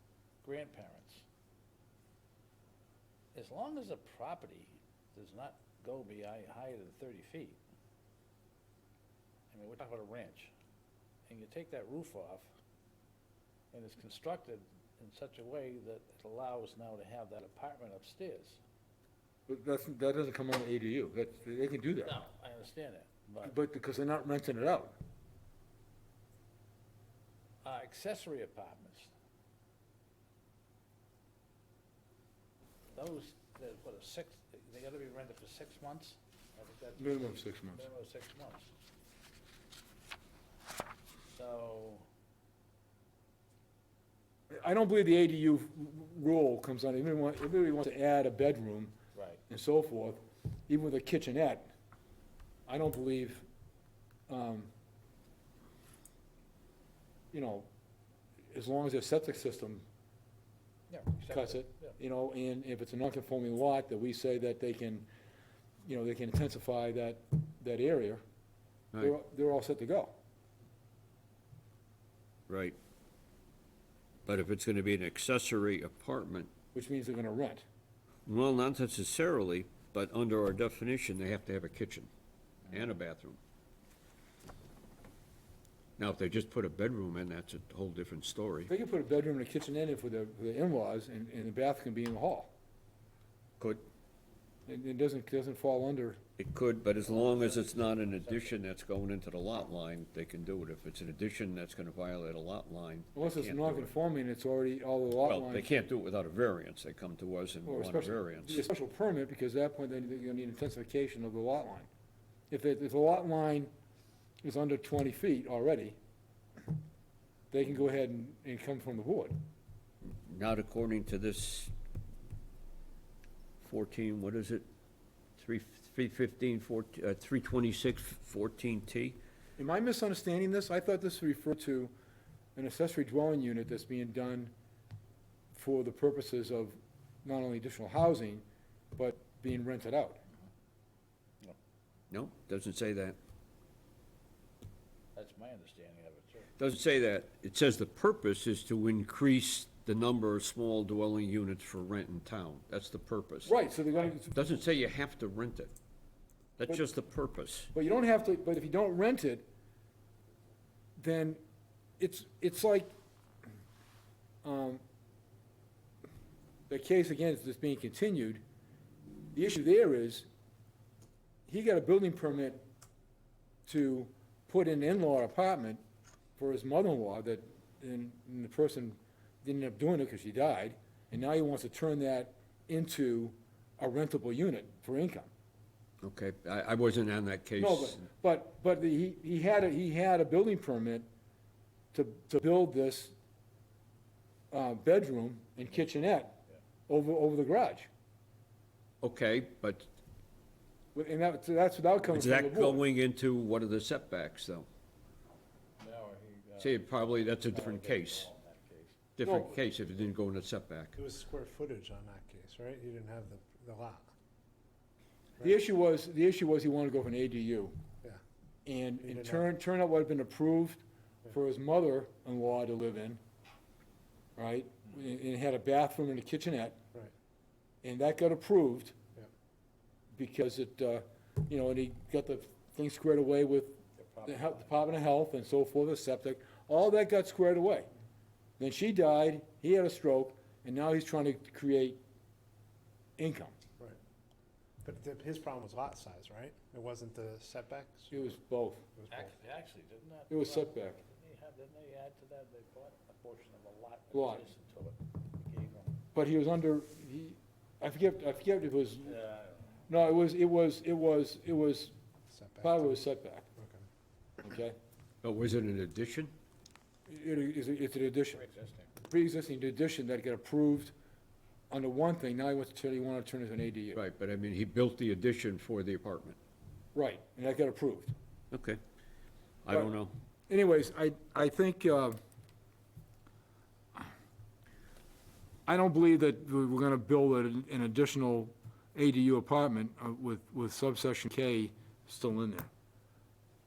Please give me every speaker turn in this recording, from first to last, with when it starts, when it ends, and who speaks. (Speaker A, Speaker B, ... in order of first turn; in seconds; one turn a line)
Speaker A: 0.4-1.3
Speaker A: 3.3-7.6
Speaker A: 9.5-10.5
Speaker A: 11.3-12.5
Speaker A: 13.7-18.6
Speaker B: 19.5-22.2
Speaker A: 22.0-23.6
Speaker B: 23.4-24.9
Speaker A: 27.6-29.1
Speaker A: 32.9-38.7
Speaker B: 37.0-37.8
Speaker A: 41.3-42.1
Speaker B: 44.5-48.9
Speaker A: 49.1-49.4
Speaker B: 49.5-51.7
Speaker B: 52.7-53.5
Speaker B: 54.3-54.7
Speaker B: 57.3-57.7
Speaker B: 58.5-59.8
Speaker A: 60.9-62.0
Speaker B: 61.3-65.1
Speaker B: 65.8-68.2
Speaker B: 69.0-70.2
Speaker C: 72.5-72.8
Speaker C: 74.3-76.5
Speaker B: 76.7-77.6
Speaker C: 78.3-82.1
Speaker C: 82.7-83.4
Speaker C: 86.0-88.7
Speaker B: 88.7-92.5
Speaker C: 93.6-93.9
Speaker B: 94.7-96.2
Speaker C: 96.4-103.9
Speaker A: 97.2-98.5
Speaker B: 103.2-105.7
Speaker C: 105.2-108.6
Speaker B: 107.7-111.9
Speaker B: 112.5-113.7
Speaker B: 114.4-116.0
Speaker B: 117.5-119.4
Speaker C: 120.1-121.7
Speaker C: 123.6-124.7
Speaker C: 125.4-129.2
Speaker B: 129.6-131.9
Speaker B: 132.6-134.5
Speaker B: 135.5-138.4
Speaker B: 139.0-140.2
Speaker C: 142.1-143.2
Speaker A: 145.2-146.5
Speaker C: 146.6-153.6
Speaker B: 153.5-154.3
Speaker C: 154.2-155.7
Speaker C: 156.6-157.7
Speaker B: 157.7-159.4
Speaker B: 161.0-161.4
Speaker B: 162.0-162.9
Speaker B: 164.4-164.8
Speaker B: 166.7-168.4
Speaker B: 169.3-170.3
Speaker B: 171.5-172.6
Speaker B: 173.7-175.8
Speaker B: 176.4-185.3
Speaker C: 186.0-188.0
Speaker B: 187.6-191.1
Speaker B: 191.9-193.2
Speaker B: 194.5-197.9
Speaker C: 199.0-199.9
Speaker B: 200.9-202.8
Speaker C: 202.1-204.7
Speaker A: 205.8-209.0
Speaker C: 206.6-208.3
Speaker C: 209.2-211.0
Speaker B: 209.2-209.5
Speaker D: 211.0-214.1
Speaker B: 215.4-217.8
Speaker B: 218.7-223.2
Speaker D: 219.0-219.5
Speaker B: 224.4-226.8
Speaker B: 227.8-229.0
Speaker B: 230.1-237.9
Speaker A: 234.0-234.8
Speaker B: 238.6-242.0
Speaker B: 243.2-243.6
Speaker D: 244.8-248.3
Speaker B: 248.1-248.9
Speaker D: 249.0-249.3
Speaker A: 249.1-256.0
Speaker B: 250.3-251.0
Speaker B: 254.1-254.4
Speaker B: 256.1-259.1
Speaker A: 259.1-259.7
Speaker B: 259.9-261.9
Speaker D: 262.3-263.0
Speaker B: 262.6-263.5
Speaker D: 263.6-263.8
Speaker B: 264.4-264.8
Speaker C: 265.2-266.3
Speaker B: 267.1-268.4
Speaker A: 268.3-268.9
Speaker B: 269.0-270.9
Speaker B: 271.7-274.0
Speaker C: 273.9-276.4
Speaker B: 276.9-278.1
Speaker C: 278.5-278.8
Speaker C: 279.6-280.1
Speaker B: 280.5-282.2
Speaker B: 285.7-292.7